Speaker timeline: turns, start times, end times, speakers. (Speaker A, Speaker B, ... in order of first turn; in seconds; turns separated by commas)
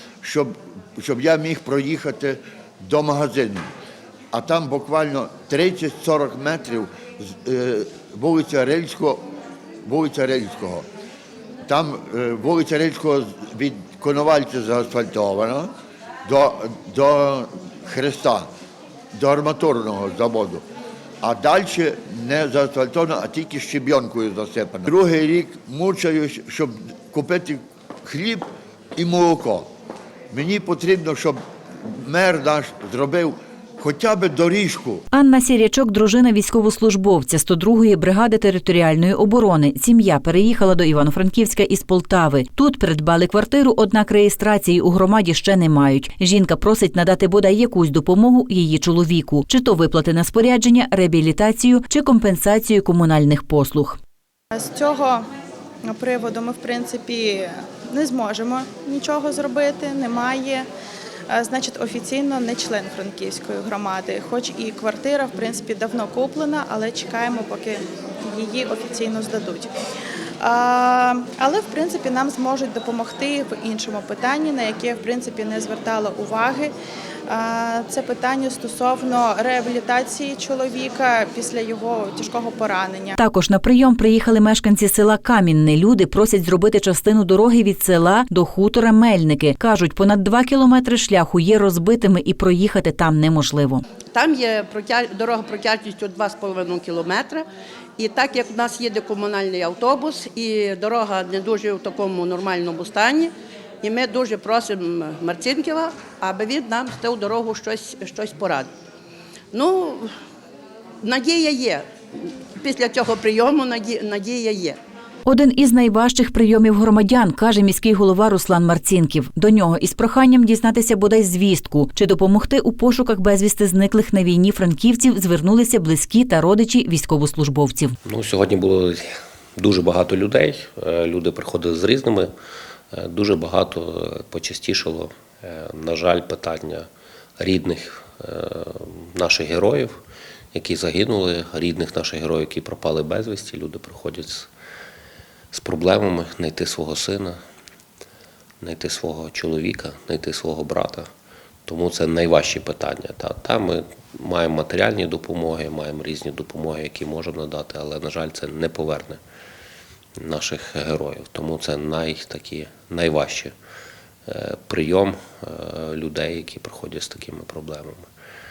Speaker A: 0.2-3.7, Speaker A: 4.3-9.2, Speaker A: 9.8-10.8, Speaker A: 11.7-15.7, Speaker A: 16.2-18.5, Speaker A: 19.1-20.6, Speaker A: 21.2-29.7, Speaker A: 30.3-35.0, Speaker B: 35.1-54.0, Speaker C: 54.5-55.2, Speaker C: 55.9-60.6, Speaker C: 61.3-69.7, Speaker C: 70.4-76.7, Speaker C: 77.3-83.2, Speaker B: 83.2-93.8, Speaker D: 94.1-97.5, Speaker D: 98.0-103.3, Speaker D: 103.8-108.7, Speaker D: 109.5-110.1, Speaker D: 111.0-111.8, Speaker D: 112.6-114.8, Speaker B: 115.2-128.0, Speaker E: 128.1-129.0, Speaker E: 129.6-132.3, Speaker E: 132.9-140.0, Speaker E: 140.5-144.5, Speaker E: 145.5-147.4, Speaker E: 148.6-151.1, Speaker E: 151.7-159.2, Speaker E: 160.2-163.5, Speaker E: 164.3-168.1